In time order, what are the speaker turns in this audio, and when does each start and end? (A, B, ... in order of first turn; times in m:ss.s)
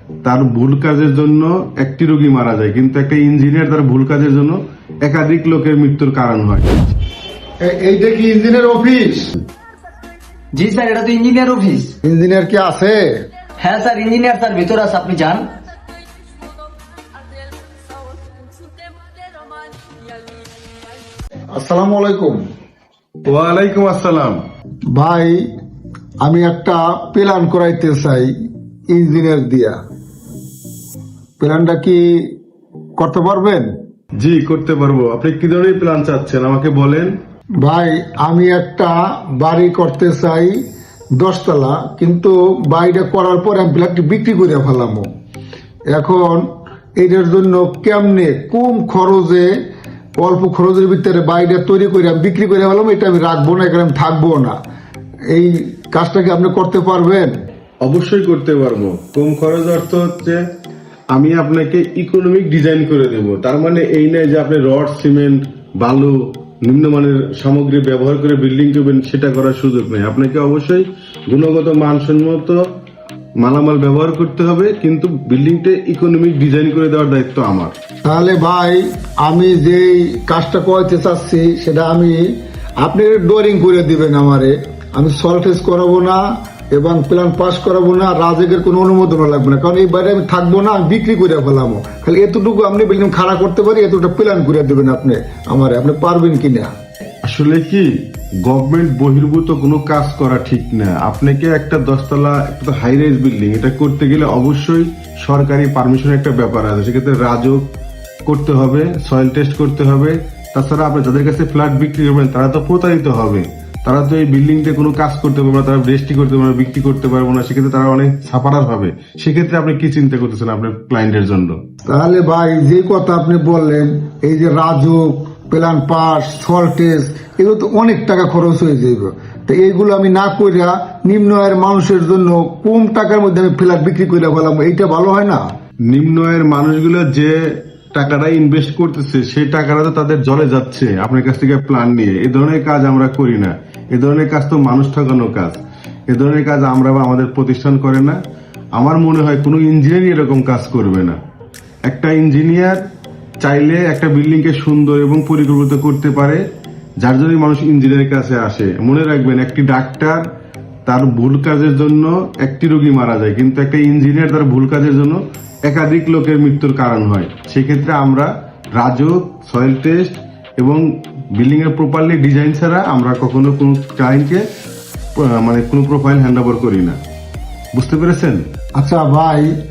0:00.2-0:06.8 A
0:07.6-0:09.3 B
0:10.5-0:11.9 C
0:12.0-0:13.3 B
0:13.6-0:15.5 C
0:21.5-0:22.4 B
0:23.2-0:24.4 A
0:24.9-0:25.4 B
0:26.2-0:28.3 B
0:28.9-0:29.8 B
0:31.4-0:32.4 B
0:33.0-0:33.7 B
0:34.2-0:37.1 A
0:37.6-0:40.6 B
0:41.2-0:45.1 B
0:45.9-0:46.5 B
0:47.0-0:49.6 B
0:50.2-0:54.6 B
0:55.3-0:57.3 B
0:57.8-1:00.4 A
1:01.1-1:12.6 A
1:13.4-1:17.7 A
1:18.0-1:26.2 B
1:26.7-1:36.7 B
1:37.2-1:47.6 A
1:48.2-2:01.6 A
2:01.9-2:15.4 B
2:15.9-2:28.2 A
2:28.8-2:31.2 A
2:31.9-2:32.8 A
2:33.4-2:36.4 A
2:37.0-2:40.2 A
2:40.8-2:54.4 A
2:55.2-2:57.0 A
2:57.7-2:58.5 A
2:58.8-2:59.5 B